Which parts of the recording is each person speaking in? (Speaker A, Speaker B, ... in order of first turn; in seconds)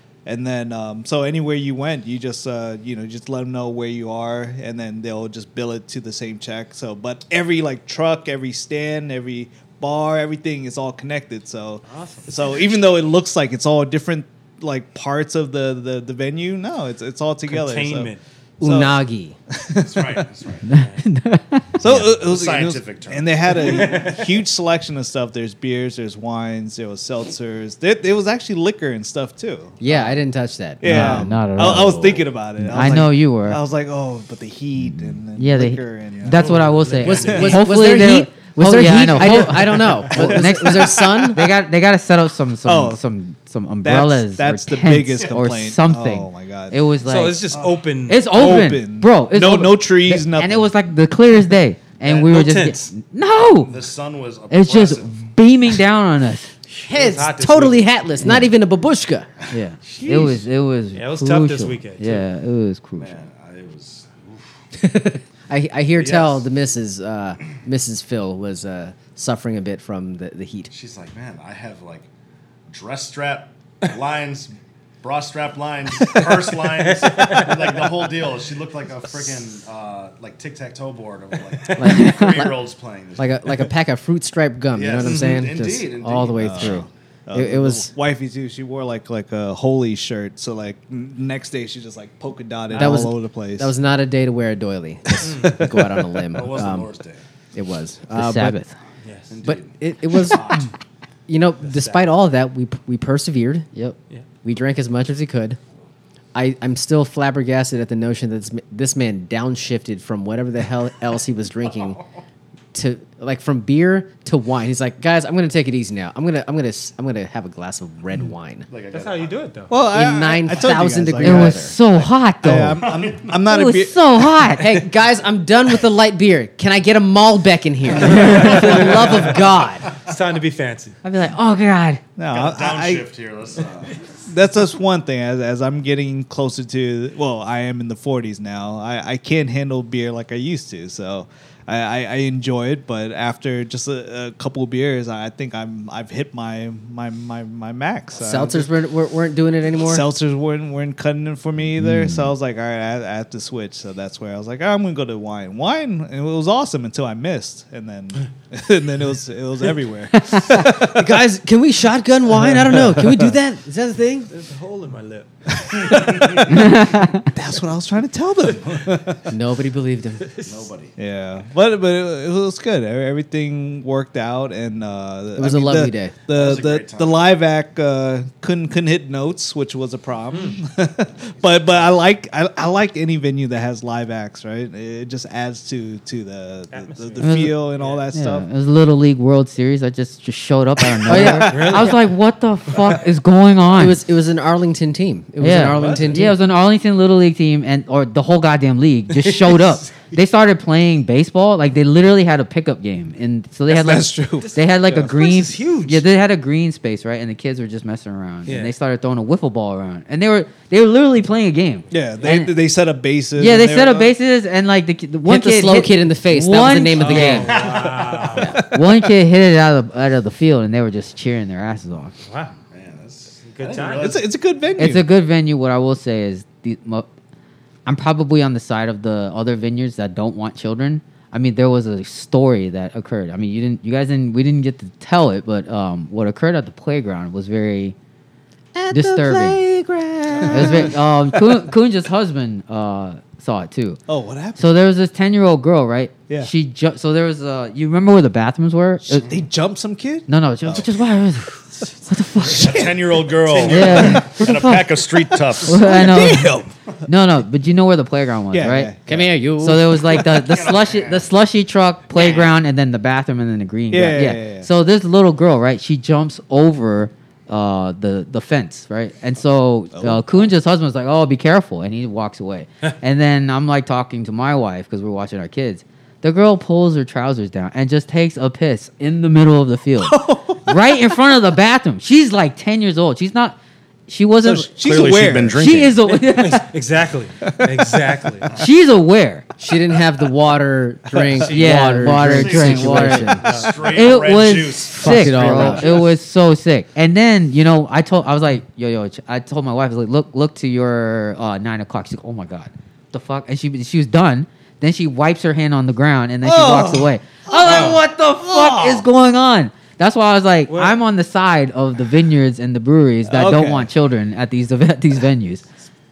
Speaker A: 0.2-19.0, 19.6-20.2, 21.8-29.9, 30.8-36.5, 37.3-37.6, 39.2-39.4, 40.0-41.3, 42.6-43.0, 43.8-46.9, 48.3-50.7, 86.3-93.7, 95.2-95.7, 119.7-124.6, 132.2-133.1, 134.3-148.7, 149.8-161.1, 162.3-163.3, 165.6-166.7, 167.3-169.3, 171.0-188.5, 191.1-191.9, 203.7-205.1, 211.9-214.1, 224.0-225.1, 240.4-241.6, 244.1-244.7, 249.1-250.9, 252.4-254.5, 255.7-256.7, 258.5-259.3, 263.9-264.7, 269.9-270.3, 280.0-280.6, 284.4-285.7, 287.5-288.6, 291.1-291.7, 292.5-293.4, 306.4-309.1, 313.3-313.9
Speaker B: 11.8-12.3, 17.5-18.2, 20.7-21.0, 23.5-24.4, 36.3-37.7, 47.0-48.3, 52.0-52.9, 56.8-57.9, 59.9-60.4, 60.9-62.2, 76.8-77.9, 85.0-85.3, 95.2-95.7, 99.0-99.3, 101.6-102.1, 118.9-119.7, 128.0-131.0, 164.3-166.1, 170.2-170.6, 180.3-180.6, 186.7-188.0, 191.2-192.0, 195.7-196.2, 199.1-200.1, 204.4-206.0, 208.4-208.7, 216.9-218.6, 222.2-222.5, 223.5-224.1, 286.0-288.5, 293.4-293.7, 310.7-310.9
Speaker C: 18.6-19.4, 29.8-32.2, 37.0-41.5, 56.9-59.3, 64.8-70.7, 81.8-82.5, 83.2-87.9, 92.7-96.9, 97.5-98.6, 99.4-100.7, 101.3-105.6, 106.3-112.0, 112.7-118.7, 119.9-121.8, 124.6-129.9, 148.1-150.0, 160.8-164.3, 169.3-170.2, 175.3-176.1, 191.1-191.9, 193.7-196.4, 215.2-217.6, 218.4-218.6, 238.7-240.9, 259.1-260.0, 289.6-293.4, 294.9-295.9
Speaker D: 19.8-20.7, 22.0-24.0, 47.5-47.8, 53.7-55.1, 59.5-60.4, 63.0-64.5, 66.0-66.5, 70.7-72.1, 72.7-83.6, 84.7-86.8, 96.3-97.2, 99.3-100.7, 111.8-112.0, 118.7-119.4, 122.7-123.4, 128.0-129.5, 132.3-134.0, 165.8-166.4, 170.4-170.9, 176.3-177.2, 181.4-181.9, 217.4-218.4, 222.7-224.3, 252.4-255.9, 260.1-261.3, 284.8-286.0, 292.1-296.1
Speaker E: 20.6-22.1, 30.8-33.6, 34.8-47.4, 48.1-53.8, 54.5-56.5, 58.2-58.5, 59.5-63.1, 82.0-82.4, 98.1-98.7, 121.2-122.8, 123.4-124.7, 128.2-128.5, 131.0-132.0, 151.8-152.3, 160.1-160.7, 166.5-167.3, 187.2-187.6, 188.1-194.0, 195.4-212.5, 213.4-217.6, 218.6-222.1, 224.8-227.1, 227.8-237.9, 238.9-239.6, 240.4-244.0, 244.6-249.3, 250.3-252.9, 253.7-255.0, 255.6-258.9, 259.6-285.0, 285.6-286.7, 288.5-289.5, 291.4-315.6